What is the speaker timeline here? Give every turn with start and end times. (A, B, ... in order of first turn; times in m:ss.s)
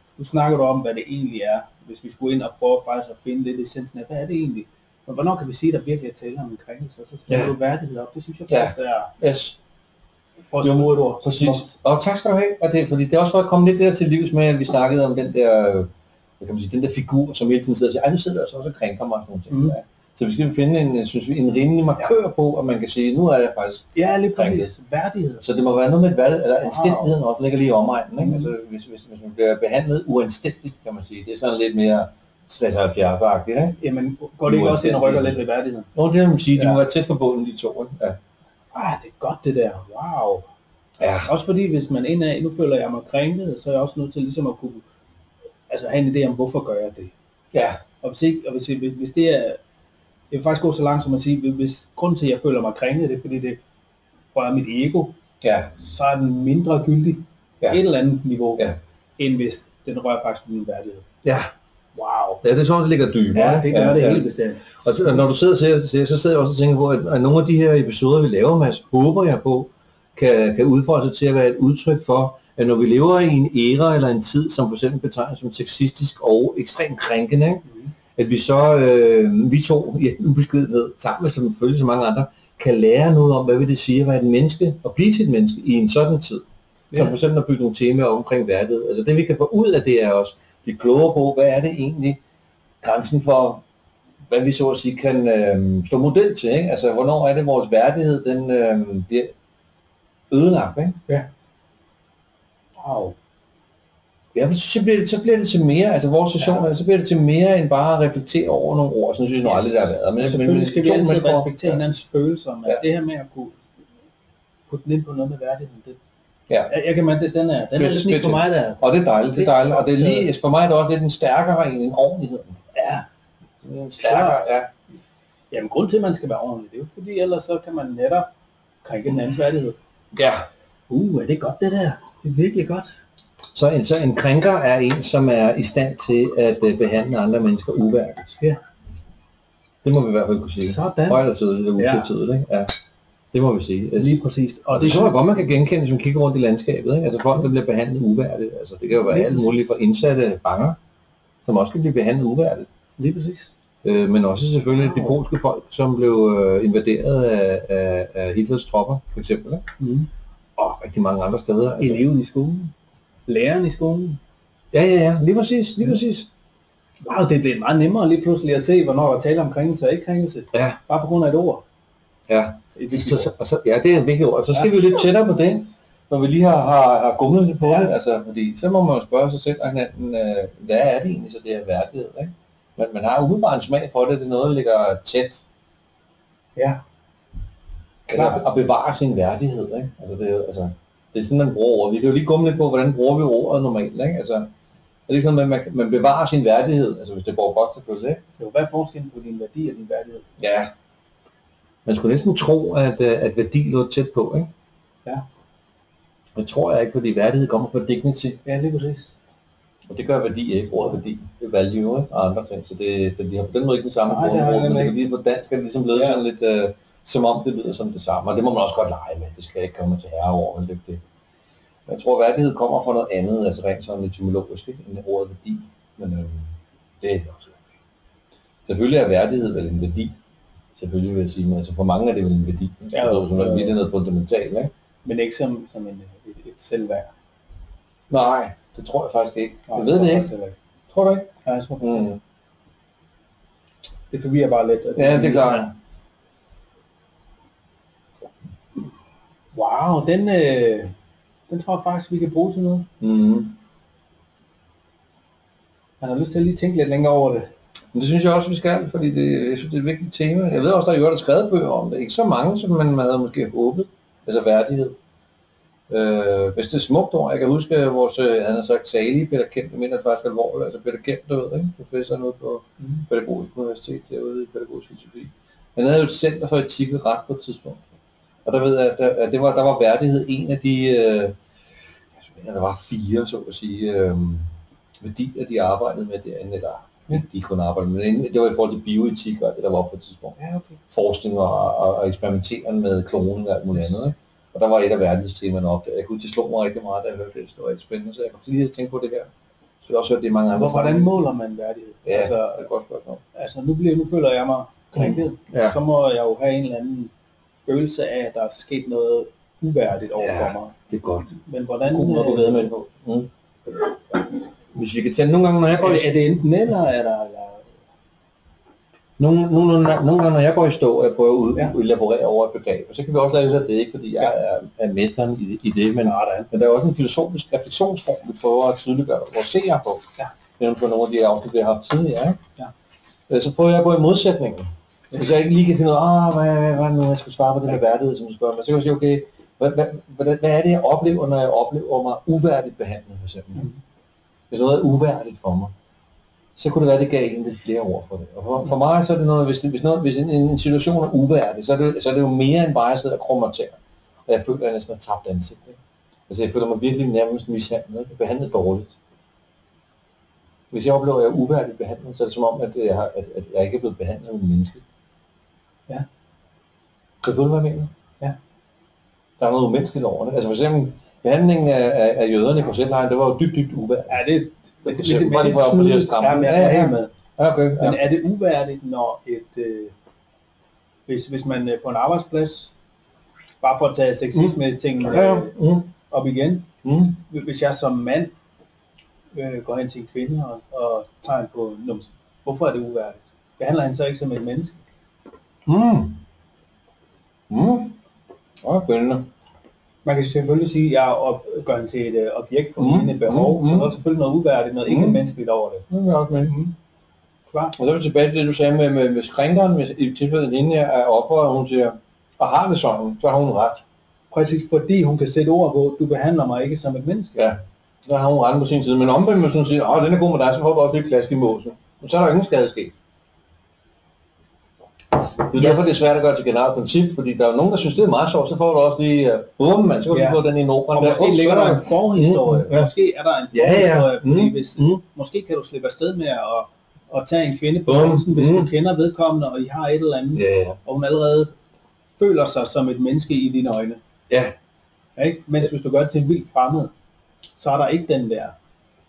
0:00.2-0:09.1 A
0:08.5-0:09.6 B
0:10.5-0:11.7 A
0:10.6-0:15.9 B
0:16.4-0:24.7 B
0:19.5-0:19.7 A
0:23.9-0:25.4 A
0:25.4-0:33.8 B
0:26.6-0:27.1 A
0:28.2-0:28.5 A
0:33.8-0:35.9 A
0:34.4-0:35.4 B
0:35.9-0:38.2 B
0:36.5-0:36.8 A
0:38.7-0:40.4 A
0:41.0-0:41.3 B
0:41.2-0:44.8 A
0:45.7-0:47.1 A
0:47.5-0:47.8 B
0:48.0-0:49.6 A
0:50.3-0:53.6 A
0:54.3-0:55.1 A
0:55.4-0:55.7 B
0:55.8-1:01.0 A
1:01.2-1:01.5 B
1:01.9-1:02.4 A
1:02.4-1:17.6 B
1:03.3-1:05.2 A
1:18.2-1:32.2 B
1:32.8-1:33.6 B
1:34.3-1:39.3 B
1:40.3-1:41.0 B
1:42.8-1:43.1 A
1:44.3-1:51.8 B
1:49.4-1:53.6 A
1:54.7-1:56.0 A
1:56.7-2:00.3 A
1:57.8-2:02.6 B
2:02.7-2:03.0 A
2:03.6-2:04.7 B
2:04.0-2:04.6 A
2:05.5-2:08.3 A
2:08.8-2:09.8 A
2:10.1-2:10.5 B
2:10.9-2:12.9 A
2:13.5-2:18.4 B
2:19.8-2:22.7 B
2:20.6-2:21.2 A
2:21.8-2:22.1 A
2:23.3-2:24.2 B
2:24.0-2:25.2 A
2:24.7-2:30.8 B
2:29.0-2:29.8 A
2:31.4-2:32.7 B
2:33.0-2:33.5 A
2:33.8-2:39.6 B
2:34.8-2:35.1 A
2:39.8-2:40.1 A
2:40.6-2:42.0 B
2:41.8-2:42.7 A
2:43.3-2:44.2 A
2:44.7-2:46.3 B
2:47.0-2:51.6 A
2:50.5-2:50.8 B
2:52.3-3:05.4 B
2:52.7-2:53.3 A
2:57.6-2:57.9 A
3:06.6-3:06.8 A
3:08.1-3:14.5 B
3:08.1-3:08.4 A
3:15.1-3:18.2 B
3:18.4-3:20.3 A
3:20.4-3:20.7 B
3:21.8-3:24.5 B
3:26.4-3:28.4 B
3:28.4-3:29.1 A
3:29.9-3:41.0 B
3:34.0-3:35.0 A
3:35.9-3:36.2 A
3:41.9-3:46.5 B
3:47.0-3:47.6 B
3:48.6-3:50.1 B
3:50.7-3:54.7 B
3:52.9-3:53.8 A
3:55.0-3:57.1 A
3:58.1-4:00.3 B
3:59.7-4:00.5 A
4:00.9-4:02.2 B
4:01.4-4:02.2 A
4:04.1-4:05.7 A
4:05.0-4:05.7 B
4:09.5-4:10.9 A
4:11.5-4:12.9 A
4:13.0-4:13.6 B
4:16.0-4:17.5 A
4:17.9-4:25.0 B
4:25.9-4:37.8 B
4:38.4-4:41.3 B
4:42.2-4:44.5 B
4:45.0-4:50.3 B
4:50.4-4:50.8 A
4:50.9-4:59.3 B
4:59.8-5:01.1 B
5:00.5-5:02.7 A
5:02.0-5:03.2 B
5:03.3-5:07.1 A
5:04.9-5:05.8 B
5:07.7-5:10.7 A
5:10.2-5:11.3 B
5:11.3-5:12.7 A
5:11.8-5:16.1 B
5:15.8-5:17.7 A
5:19.2-5:30.0 B
5:25.9-5:26.5 A
5:30.6-5:32.4 B
5:33.3-5:43.7 B
5:44.5-5:45.7 B
5:46.6-5:59.0 B
6:00.7-6:04.8 B
6:07.2-6:07.9 B
6:09.4-6:14.3 B
6:14.1-6:17.1 A
6:14.8-6:18.0 B
6:17.8-6:19.9 A
6:21.1-6:22.7 A
6:23.6-6:25.5 A
6:24.3-6:25.9 B
6:26.1-6:26.7 A
6:26.8-6:27.2 B
6:27.2-6:28.3 A
6:29.3-6:34.8 A
6:35.6-6:36.2 B
6:37.5-6:38.0 B
6:38.6-6:39.3 B
6:40.0-6:45.9 A
6:42.8-6:44.0 B
6:44.8-6:45.2 B
6:45.9-6:46.6 B
6:46.4-6:46.7 A
6:47.5-6:47.8 A
6:47.8-6:53.8 B
6:54.3-6:57.4 A
6:57.4-7:02.9 B
7:05.4-7:12.9 B
7:05.5-7:05.9 A
7:10.1-7:10.4 A
7:10.9-7:21.5 A
7:13.5-7:15.0 B
7:17.9-7:18.7 B
7:20.3-7:20.8 B
7:22.2-7:24.0 A
7:24.3-7:24.5 B
7:25.2-7:26.9 A
7:27.6-7:28.5 A